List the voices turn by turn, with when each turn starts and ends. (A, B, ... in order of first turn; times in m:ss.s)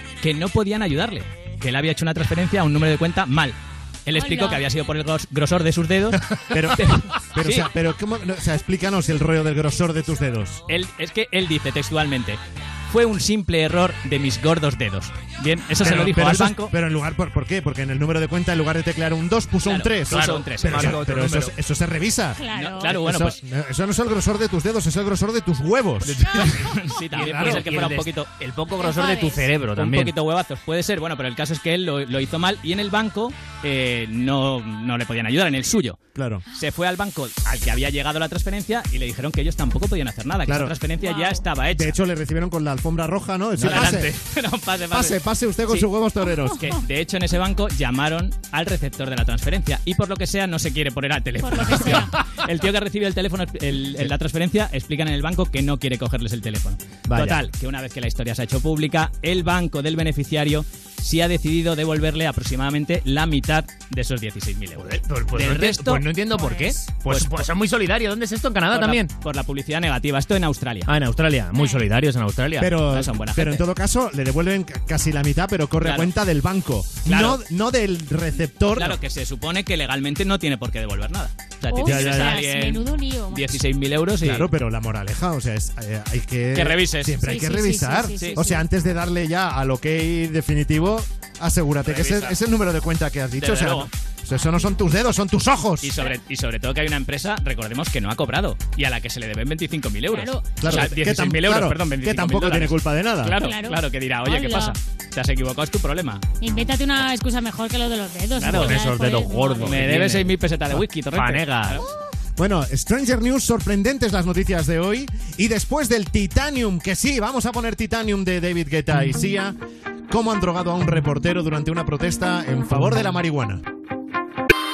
0:00.2-0:07.7 A
0:04.1-0:04.6 B
0:06.5-0:10.6 C
0:10.7-0:16.7 A
0:15.8-0:27.7 C
0:19.6-0:21.1 A
0:20.1-0:21.5 D
0:22.4-0:23.0 B
0:22.5-0:23.4 A
0:26.0-0:28.3 A
0:26.3-0:26.7 B
0:27.2-0:30.1 D
0:28.8-0:29.5 B
0:29.7-0:36.0 A
0:36.2-0:36.4 C
0:36.5-0:42.0 A
0:40.5-0:40.8 C
0:41.0-0:41.5 B
0:41.7-0:44.1 C
0:43.6-0:45.9 A
0:44.9-0:46.6 C
0:46.3-0:46.6 B
0:46.6-1:06.1 A
0:51.4-0:52.2 B
0:57.1-0:57.4 D
1:04.8-1:09.1 D
1:06.3-1:06.8 B
1:07.0-1:07.5 A
1:08.7-1:10.9 A
1:10.9-1:12.8 D
1:11.5-1:11.8 B
1:12.6-1:19.0 C
1:12.9-1:13.6 A
1:15.8-1:16.1 A
1:17.0-1:17.4 A
1:18.7-1:24.5 A
1:21.7-1:23.6 B
1:21.8-1:22.4 C
1:24.2-1:35.9 C
1:26.5-1:27.2 A
1:27.2-1:28.6 B
1:31.8-1:32.4 A
1:33.4-1:33.9 A
1:35.8-1:46.2 A
1:40.1-1:40.9 B
1:40.6-1:43.4 C
1:43.4-1:44.8 B
1:46.4-1:49.9 B
1:48.4-1:48.8 A
1:48.5-1:51.8 D
1:49.6-1:51.8 A
1:52.4-1:59.6 C
2:00.1-2:03.6 C